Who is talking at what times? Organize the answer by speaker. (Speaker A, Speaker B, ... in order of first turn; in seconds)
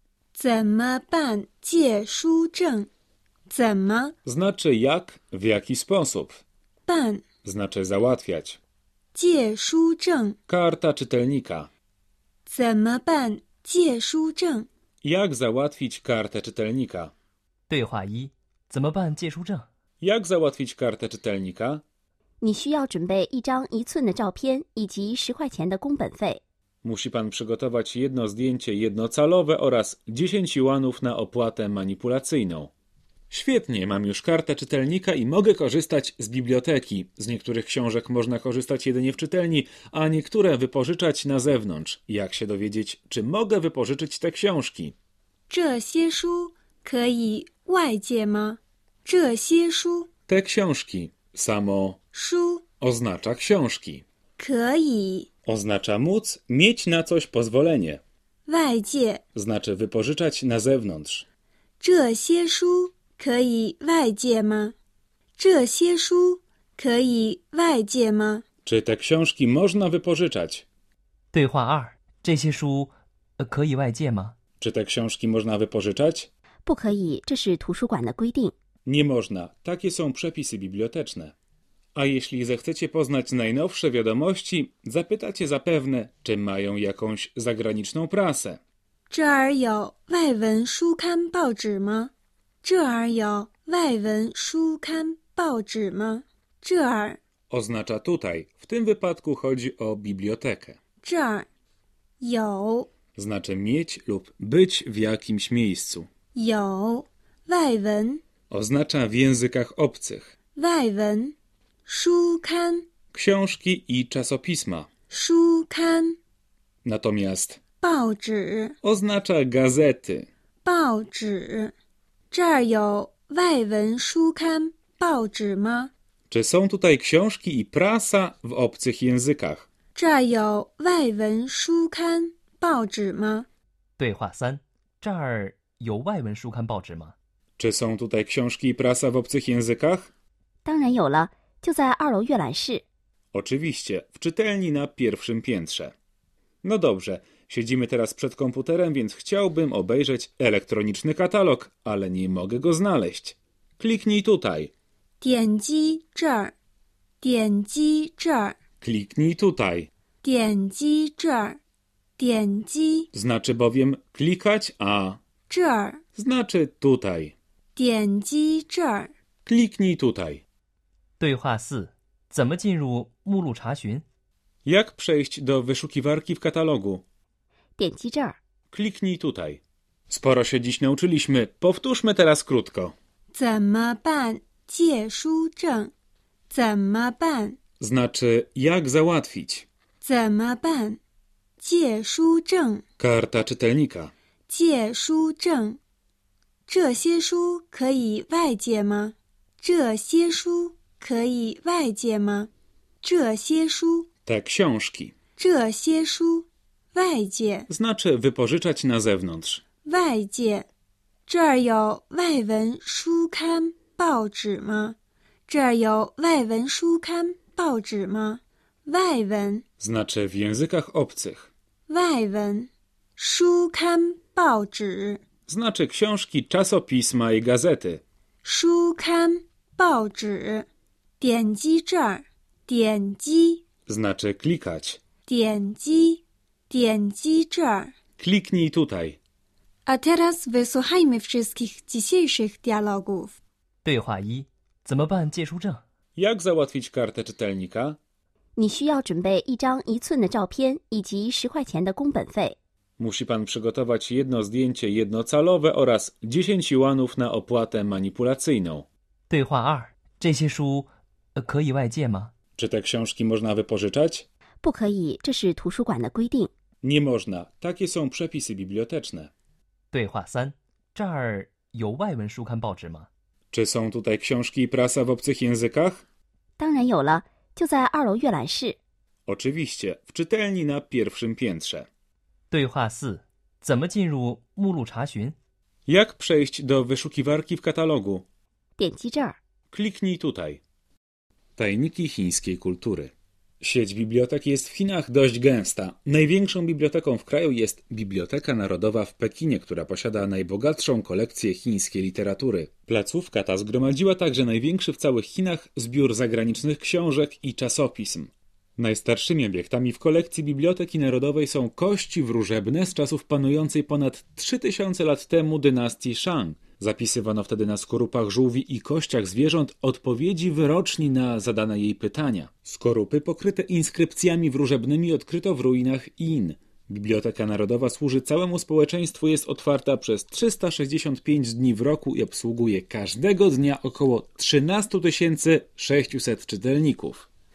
Speaker A: 0.3-2.9, 3.5-4.1, 6.9-7.2, 9.1-10.4, 12.5-14.7, 45.5-50.1, 52.1-52.6, 54.4-55.3, 58.5-59.2, 61.8-64.8, 65.4-68.5, 89.1-92.1, 92.6-97.2, 101.0-101.5, 102.2-102.9, 106.3-108.2, 110.6-111.3, 111.9-112.9, 115.1-116.2, 117.8-118.8, 120.6-121.7, 122.3-125.9, 129.9-133.5, 155.2-156.5, 157.2-158.6, 160.2-161.6, 162.2-163.1, 165.5-166.0, 167.8-169.1, 183.3-185.9, 186.5-187.6, 190.0-191.0, 191.6-192.8, 194.5-195.8, 196.7-202.5, 203.0-204.1, 205.4-207.7, 209.8-210.7, 211.3-219.6, 221.9-225.2, 228.4-230.7, 231.2-233.7, 235.3-237.9, 239.9-243.4
Speaker B: 4.2-6.4, 7.4-8.6, 10.5-11.7, 15.0-17.1, 20.0-21.8, 26.8-32.7, 33.3-45.0, 50.3-52.0, 52.8-54.0, 55.5-58.0, 59.3-61.3, 68.7-70.7, 74.6-76.3, 78.8-81.3, 82.0-88.6, 97.5-100.8, 103.2-106.1, 108.5-110.3, 113.1-114.9, 116.8-117.6, 118.8-120.3, 126.3-129.7, 137.6-140.1, 143.3-145.9, 146.6-154.7, 158.8-159.9, 163.1-165.2, 166.2-167.3, 169.5-170.4, 174.7-177.0, 178.7-182.9, 187.8-189.7, 193.0-194.1, 204.3-205.1, 207.7-209.6, 219.8-221.5, 225.5-228.0, 233.9-235.0, 238.2-239.2, 246.2-248.0, 253.0-258.9, 262.6-264.3, 266.8-269.3, 273.5-276.0, 279.3-281.9, 285.9-288.3, 289.7-290.6, 291.6-337.3
Speaker C: 17.7-19.7, 71.3-74.4, 134.0-137.2, 171.2-174.1, 243.8-245.8, 259.3-262.3, 269.9-273.1, 282.5-285.4
Speaker D: 22.4-26.4, 76.7-78.5, 140.7-142.8, 177.8-178.4, 248.6-252.6, 264.6-266.5, 276.6-278.8, 288.8-289.4